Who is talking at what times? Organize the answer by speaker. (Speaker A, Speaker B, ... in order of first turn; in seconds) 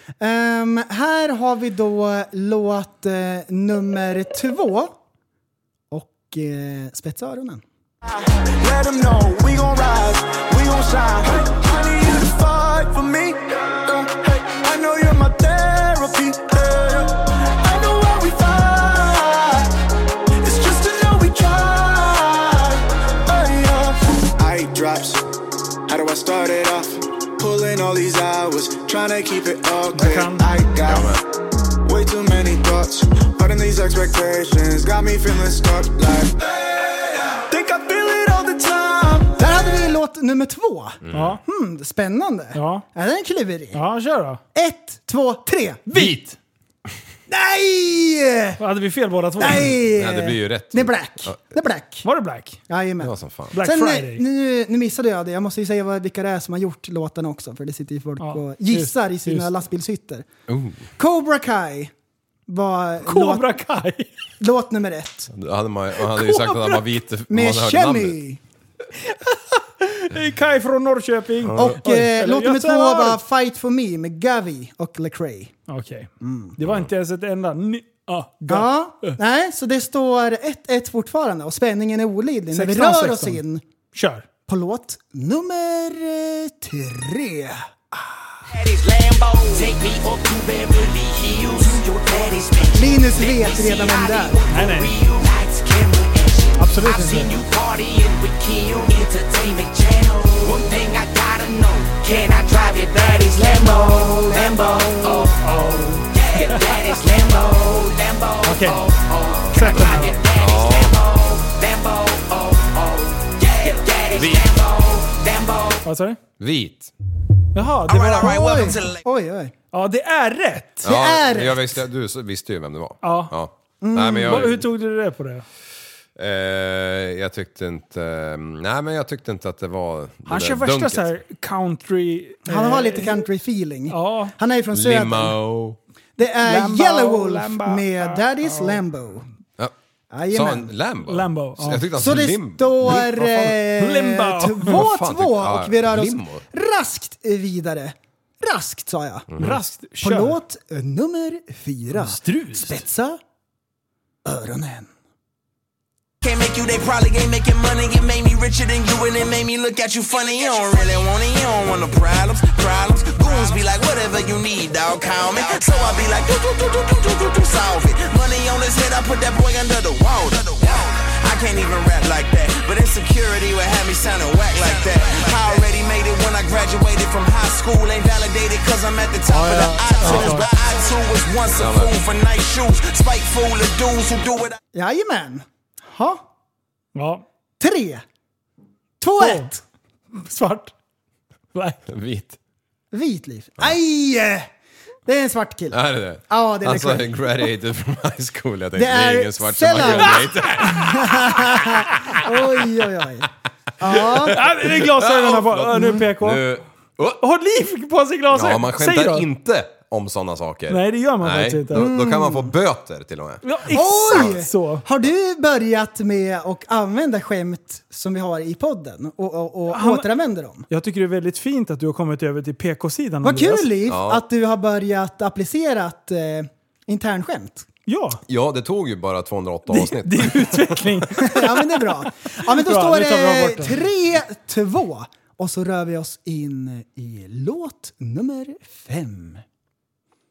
Speaker A: 0.2-4.9, 5.9-7.6, 39.4-43.8, 44.5-45.8, 47.3-48.6, 49.4-52.0, 52.7-60.2, 61.0-61.9, 62.5-63.5, 64.4-65.3, 67.3-68.4, 71.5-75.5, 76.2-76.5, 78.5-83.6, 84.5-88.4, 92.7-94.4, 118.2-119.5, 120.8-121.7, 123.8-124.5, 132.5-135.4, 136.2-139.2, 140.1-140.7, 141.9-149.3, 150.0-153.2, 154.2-154.9, 184.7-186.2, 187.6-188.0, 189.0-189.6, 192.9-194.5, 195.1-197.3, 198.8-203.3, 203.8-204.6, 211.7-212.5, 213.7-220.7, 223.2-227.7, 231.2-239.4
Speaker B: 8.6-19.7, 20.4-25.2, 25.9-31.2, 31.8-39.3
Speaker C: 29.9-30.5, 41.1-41.4, 42.5-42.8, 43.7-44.4, 45.9-46.4, 48.6-49.8, 52.0-52.6, 53.5-54.2, 58.2-59.5, 63.0-64.1, 66.1-66.8, 68.9-73.2, 75.7-79.2, 82.5-83.4, 83.9-84.2, 94.5-95.0, 96.6-97.3, 105.4-106.9, 108.4-108.9, 109.5-110.2, 115.8-116.2, 117.5-118.7, 119.7-120.9, 123.0-123.3, 124.2-125.4, 130.3-133.2, 133.9-134.3, 136.4-138.8, 141.0-141.9, 142.9-144.8, 149.4-150.4, 151.9-152.8, 179.3-180.5, 186.9-187.2, 189.2-189.5, 190.1-190.7, 191.5-191.8, 199.9-200.8, 204.2-206.4, 207.2-209.3, 210.7-211.9, 213.4-214.8, 219.7-220.1, 220.7-223.7, 227.9-228.2, 229.7-233.8
Speaker D: 30.9-31.1, 41.0-41.3, 45.9-46.2, 49.9-51.4, 53.0-53.5, 60.5-60.8, 65.3-68.2, 71.4-71.8, 109.3-109.8, 110.3-111.0, 114.1-114.5, 116.4-116.9, 120.8-124.6, 126.2-131.1, 134.7-135.8, 140.3-143.5, 144.6-146.4, 149.3-149.6, 180.0-180.4, 181.5-181.9, 191.9-192.3, 195.7-202.4, 203.8-207.2, 208.3-213.4, 223.8-224.2, 228.3-230.9
Speaker E: 88.5-115.8
Speaker F: 156.2-184.6